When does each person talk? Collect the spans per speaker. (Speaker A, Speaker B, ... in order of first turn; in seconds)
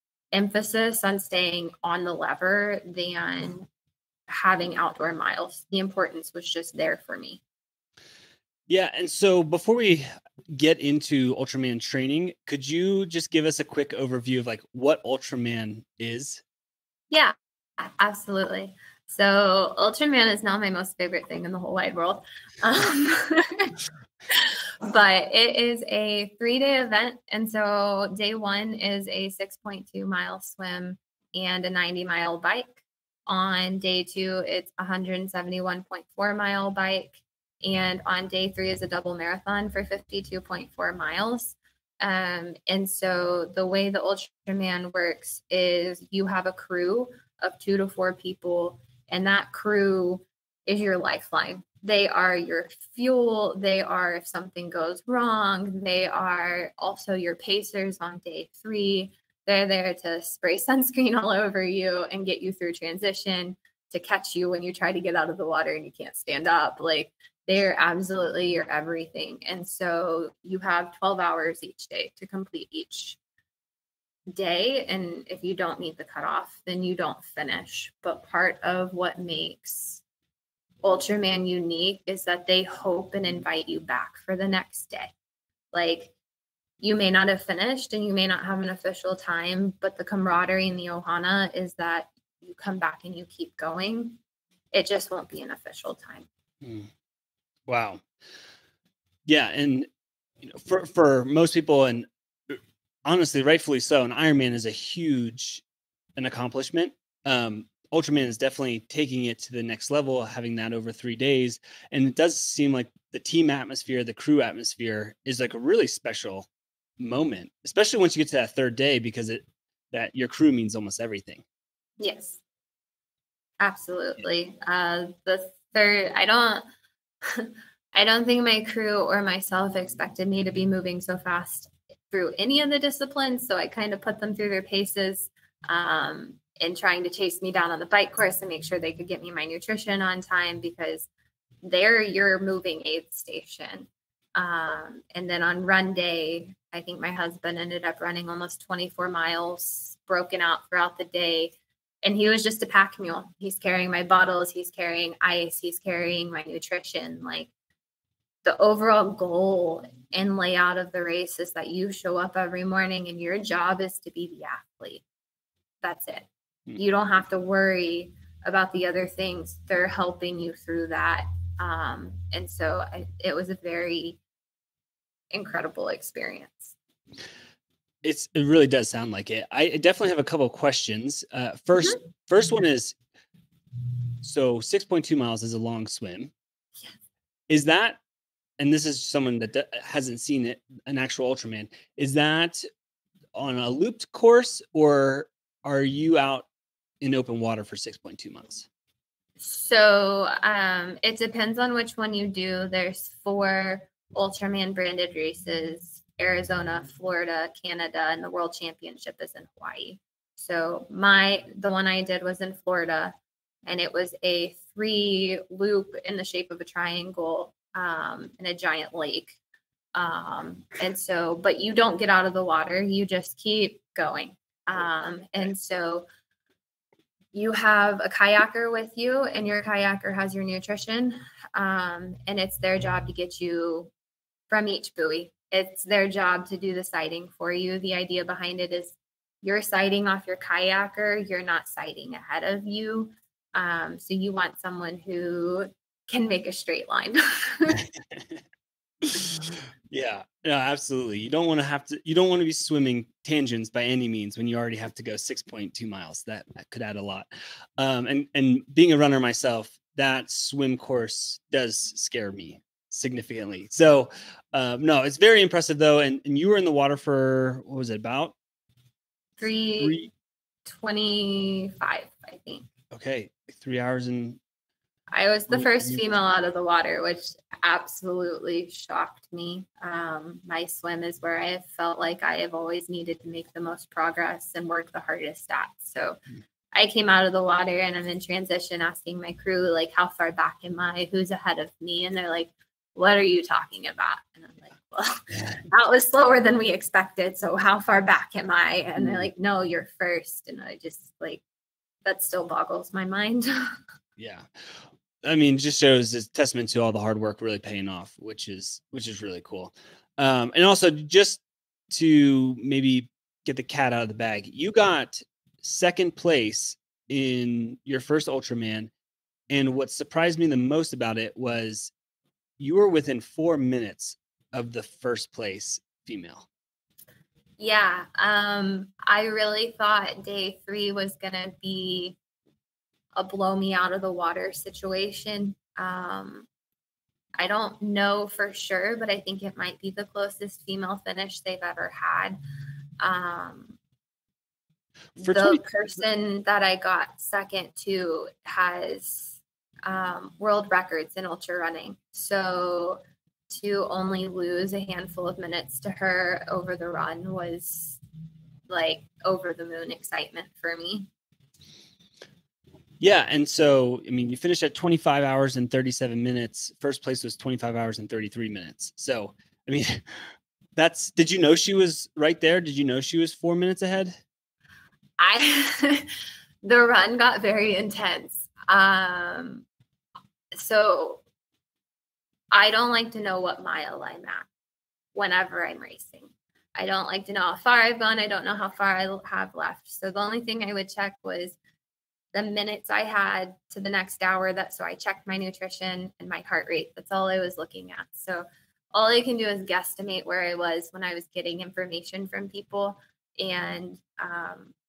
Speaker A: 0.3-3.7, 4.3-7.4, 17.1-23.7, 24.3-73.2, 74.3-80.0, 80.8-85.1, 85.7-86.1, 86.8-94.2, 94.7-96.3, 122.0-122.4, 123.6-126.6, 127.2-141.1, 141.6-157.5, 158.4-165.0, 165.8-174.2, 175.3-176.8, 199.4-219.4, 219.9-226.0, 227.3-233.9, 234.5-247.8, 269.4-270.0, 270.6-272.7, 275.1-286.2, 286.7-301.4, 302.1-303.6, 327.6-332.2, 333.1-336.5, 337.4-342.4, 343.0-343.8, 345.2-358.0, 358.7-361.1, 375.2-376.1, 376.6-379.7, 380.5-381.2, 382.5-384.5, 385.1-391.6, 392.3-404.7
Speaker B: 8.7-16.4, 96.6-96.9, 97.7-98.0, 99.3-99.9, 100.4-105.6, 106.2-116.5, 117.0-121.4, 178.0-183.0, 184.2-186.3, 187.5-188.0, 188.6-192.7, 193.3-196.5, 197.0-198.7, 247.7-248.4, 249.1-268.3, 269.8-270.1, 272.9-274.4, 275.5-276.1, 299.0-299.3, 304.2-304.5, 305.2-318.9, 319.5-321.9, 322.6-326.5, 345.2-345.6, 363.0-370.2, 370.8-374.2